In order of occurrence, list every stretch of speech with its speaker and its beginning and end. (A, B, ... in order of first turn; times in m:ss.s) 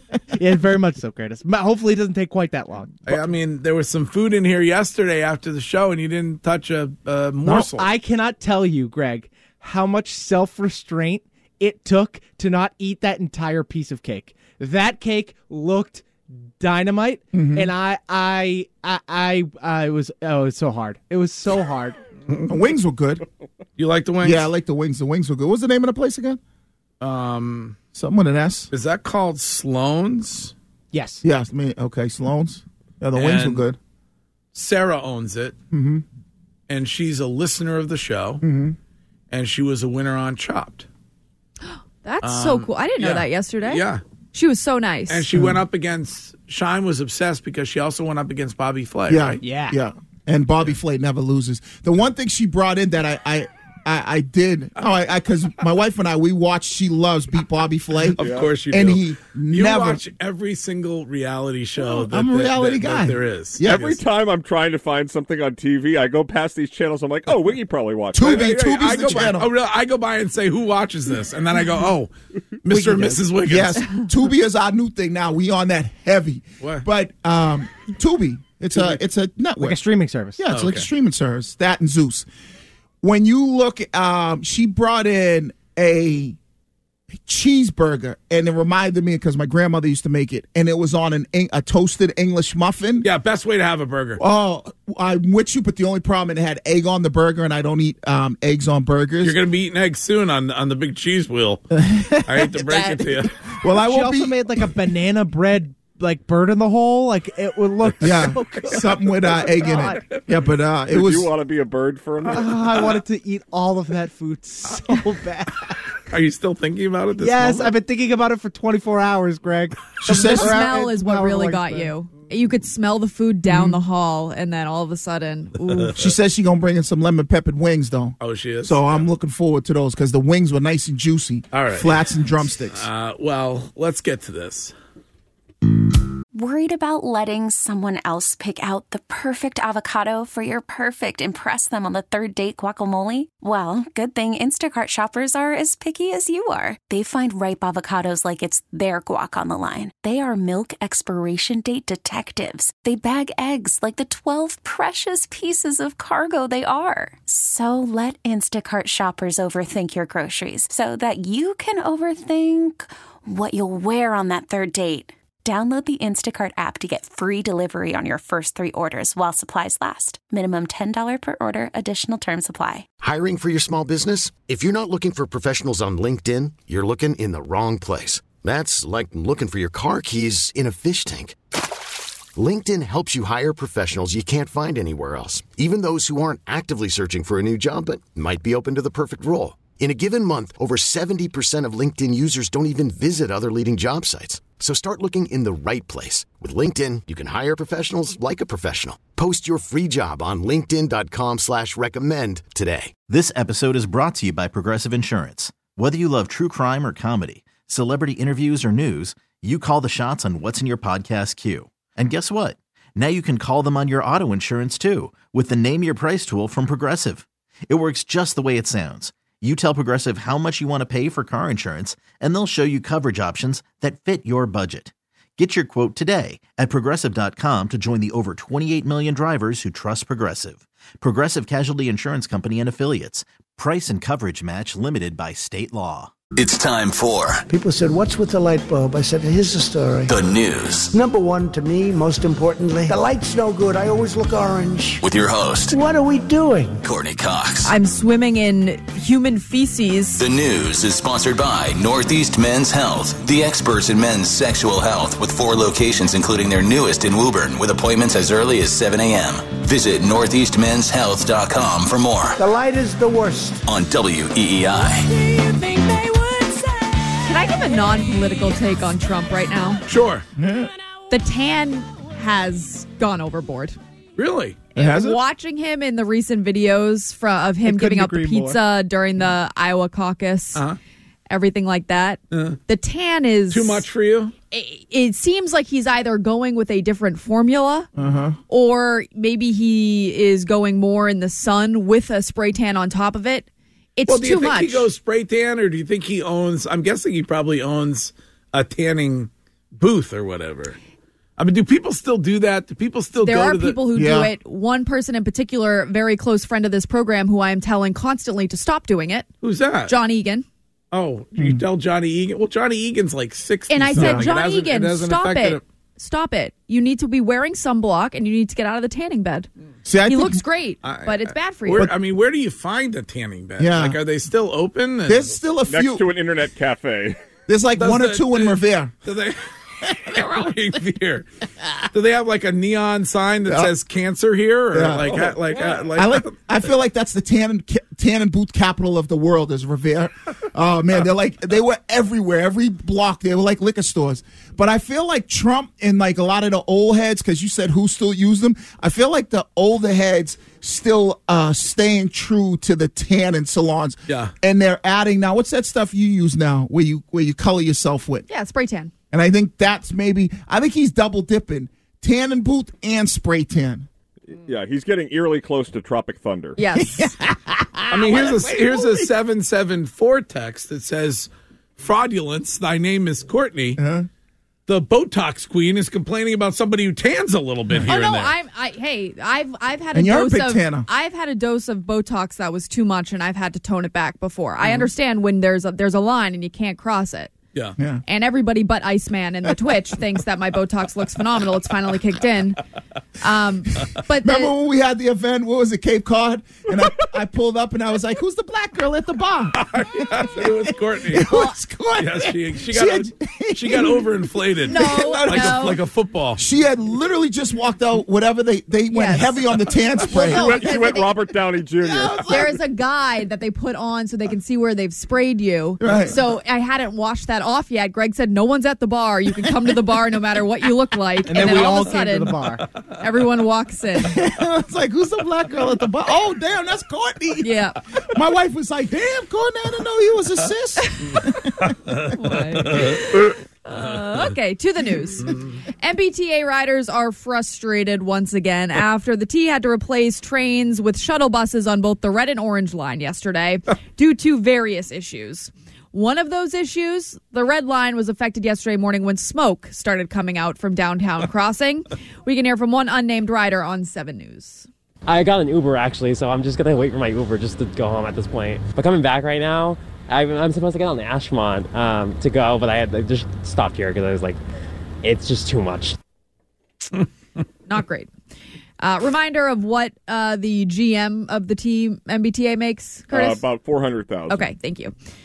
0:00.3-0:03.2 A
0:03.0-0:07.9 B
0:07.8-0:16.0 A
0:16.6-0:22.0 A
0:17.3-0:17.7 C
0:22.5-0:23.2 C
0:23.8-0:24.5 B
0:24.2-0:26.4 C
0:27.0-0:27.8 B
0:27.9-0:28.7 C
0:28.7-0:30.5 B
0:30.9-0:31.2 A
0:31.2-0:33.8 C
0:33.1-0:33.6 B
0:34.5-0:35.5 B
0:35.7-0:36.0 C
0:36.7-0:38.4 B
0:38.4-0:38.8 C
0:39.3-0:40.9 B
0:41.7-0:45.3 D
0:42.2-0:44.0 B
0:45.1-0:49.4 B
0:45.3-0:45.6 C
0:49.1-1:00.0 C
0:49.4-0:49.8 A
0:58.1-1:04.0 B
0:58.2-0:58.5 E
1:01.8-1:03.8 C
1:03.6-1:09.2 E
1:08.1-1:09.5 C
1:08.2-1:12.1 B
1:12.6-1:13.8 B
1:12.7-1:13.2 A
1:13.4-1:19.8 C
1:16.6-1:16.8 B
1:19.6-1:20.4 A
1:20.4-1:22.2 C
1:20.5-1:20.9 B
1:23.0-1:26.4 C
1:27.2-1:33.1 C
1:33.0-1:34.2 B
1:34.2-1:39.4 C
1:39.2-1:43.3 B
1:41.7-1:42.9 C
1:43.6-1:44.4 C
1:43.8-1:48.9 A
1:48.0-1:51.3 C
1:49.5-1:50.0 A
1:50.9-1:52.9 E
1:52.2-1:55.7 A
1:56.1-1:57.7 B
1:57.2-2:01.9 A
2:00.0-2:00.6 C
2:00.2-2:06.0 D
2:03.4-2:03.8 C
2:06.0-2:12.8 C
2:08.2-2:09.1 B
2:11.5-2:12.1 B
2:12.7-2:14.7 B
2:16.3-2:52.9 F
2:53.0-3:01.4 G
3:02.4-3:23.0 G
3:23.1-3:56.1 H
3:56.4-3:57.4 I
3:57.5-4:00.1 J
4:00.1-4:00.9 I
4:00.9-4:05.0 J
4:05.0-4:05.8 I
4:05.7-4:06.8 J
4:06.8-4:07.7 I
4:07.6-4:10.2 D
4:10.2-4:22.4 I
4:22.4-4:23.6 J
4:23.6-4:25.1 I
4:27.2-4:29.8 D
4:29.9-4:30.2 B
4:30.4-4:30.7 C
4:31.1-4:33.8 D
4:34.2-4:34.6 B
4:34.7-4:40.6 D
4:34.8-4:35.2 C
4:37.6-4:38.6 A
4:41.3-4:43.8 D
4:42.3-4:42.6 B
4:43.5-4:44.3 B
4:44.5-4:47.9 D
4:48.0-4:48.4 C
4:48.5-4:54.9 D
4:54.1-5:00.8 B
5:01.4-5:03.8 B
5:03.2-5:09.3 D
5:04.0-5:04.3 C
5:09.4-5:09.9 B
5:09.9-5:10.4 D
5:10.9-5:15.6 B
5:11.4-5:11.6 C
5:13.7-5:19.5 D
5:13.9-5:14.3 C
5:19.9-5:20.4 C
5:20.0-5:21.9 D
5:20.8-5:25.3 B
5:23.6-5:24.0 C
5:25.0-5:26.1 C
5:25.7-5:27.2 E
5:27.5-5:28.9 C
5:27.7-5:31.3 B
5:31.9-5:36.4 B
5:33.5-5:33.7 C
5:34.7-5:35.4 C
5:35.9-5:58.2 C
5:54.1-5:54.3 B
5:58.3-5:58.9 D
5:59.1-6:03.9 C
6:04.3-6:06.6 E
6:06.6-6:07.2 D
6:06.9-6:09.1 C
6:07.9-6:13.8 B
6:13.8-6:14.1 C
6:14.7-6:18.3 B
6:17.8-6:27.4 D
6:19.9-6:20.9 C
6:28.1-6:32.6 D
6:33.2-6:34.5 D
6:34.2-6:44.1 C
6:39.5-6:41.2 B
6:41.2-6:41.5 D
6:41.9-6:46.4 B
6:44.6-6:45.8 C
6:44.7-6:45.8 D
6:46.4-6:51.0 C
6:48.9-6:49.4 D
6:50.1-6:51.2 D
6:50.1-6:52.5 E
6:51.8-6:52.6 C
6:52.2-7:04.2 D
6:55.8-6:56.2 C
7:01.2-7:02.6 A
7:04.0-7:07.5 C
7:07.4-7:07.8 D
7:08.1-7:12.1 C
7:10.9-7:11.2 D
7:11.9-7:13.0 B
7:12.1-7:34.7 D
7:15.2-7:15.5 B
7:35.1-7:40.3 F
7:35.1-7:44.4 K
7:41.2-7:42.1 F
7:42.7-7:44.4 F
7:45.0-7:45.9 F
7:45.2-7:45.9 K
7:47.7-7:48.1 D
7:48.8-7:53.4 D
7:53.1-7:54.5 E
7:54.3-7:54.9 D